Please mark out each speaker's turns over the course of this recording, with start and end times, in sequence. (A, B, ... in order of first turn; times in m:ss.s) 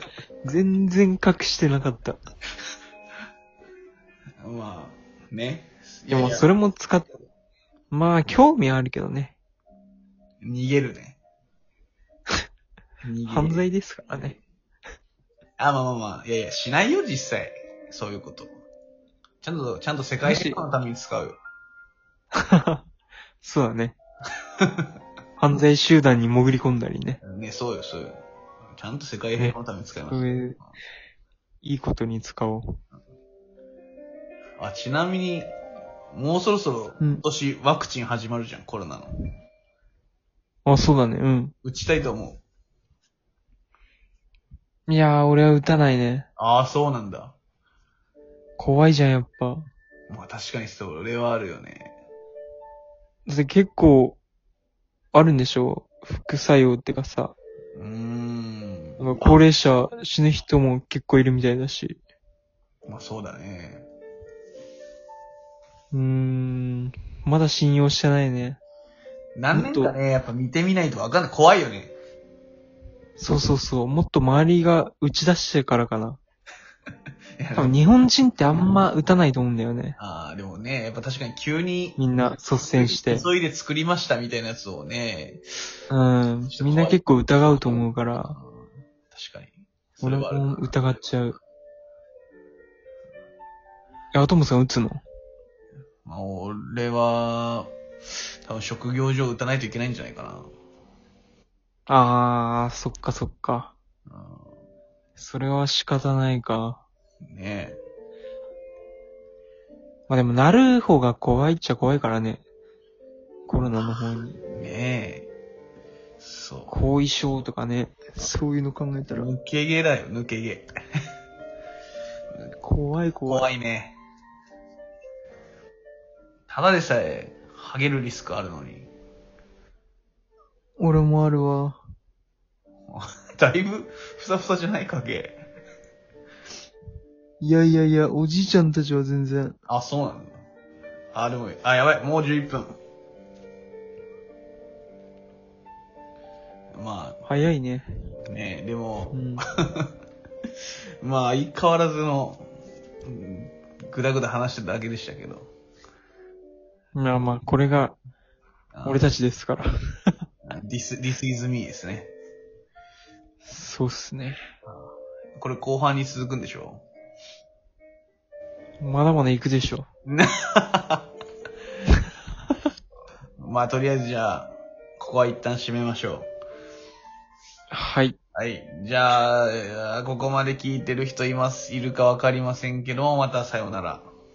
0:00.4-0:02.2 A
0:04.4-0:06.5 B
0:06.1-0:07.1 A
0:07.9-0:09.4 A
0:10.4-0:11.2 B
0:13.0-0:13.6 B
0:13.2-0:14.4 A
0:15.6-0:18.5 B
0:19.4-0:21.4 B
0:20.2-0:20.6 A
0:22.4-0:22.8 A
0:23.4-0:24.0 A
0:24.6-0:24.9 B
0:25.4-0:27.2 A
0:27.2-0:28.2 B
0:28.8-0:30.2 B
0:30.1-0:30.6 A
0:31.6-0:32.8 A
0:34.6-0:35.5 B
0:36.1-0:39.1 B
0:40.6-0:41.6 A
0:41.6-0:42.4 B
0:44.9-0:46.3 A
0:46.4-0:47.4 B
0:48.6-0:49.7 A
0:50.1-0:51.9 B
0:53.3-0:54.2 A
0:55.1-0:57.3 A
0:57.8-0:59.4 B
0:59.0-1:02.0 A
1:02.9-1:03.9 B
1:05.9-1:08.6 A
1:09.4-1:11.9 B
1:09.5-1:10.0 A
1:13.2-1:16.2 A
1:17.4-1:17.8 B
1:17.6-1:20.0 A
1:20.0-1:22.0 B
1:22.0-1:23.2 A
1:22.7-1:25.4 B
1:25.9-1:28.4 A
1:26.5-1:30.7 B
1:30.0-1:31.4 A
1:34.1-1:35.0 A
1:36.0-1:37.7 B
1:38.4-1:40.5 B
1:41.9-1:43.7 A
1:44.1-1:44.5 B
1:45.2-1:46.8 A
1:47.3-1:47.8 B
1:50.1-1:52.4 A
1:53.5-1:54.4 A
1:54.5-1:55.3 B
1:56.2-1:56.7 B
1:56.7-1:59.3 A
1:59.1-2:00.7 B
2:02.6-2:03.5 A
2:03.3-2:04.0 B
2:06.5-2:08.9 B
2:10.8-2:11.8 A
2:12.9-2:15.4 B
2:17.4-2:19.6 A
2:19.7-2:20.4 B
2:21.1-2:22.8 B
2:26.7-2:27.2 B
2:27.3-2:27.9 A
2:28.3-2:29.9 B
2:29.1-2:29.5 A
2:31.0-2:32.5 B
2:33.0-2:35.5 B
2:37.0-2:38.0 A
2:38.7-2:39.1 B
2:38.8-2:40.1 A
2:40.4-2:42.1 B
2:43.4-2:44.4 A
2:44.7-2:46.8 B
2:48.8-2:49.9 A
2:50.1-2:51.1 B
2:53.4-2:56.3 B
2:57.7-2:58.2 A
2:58.4-3:04.1 B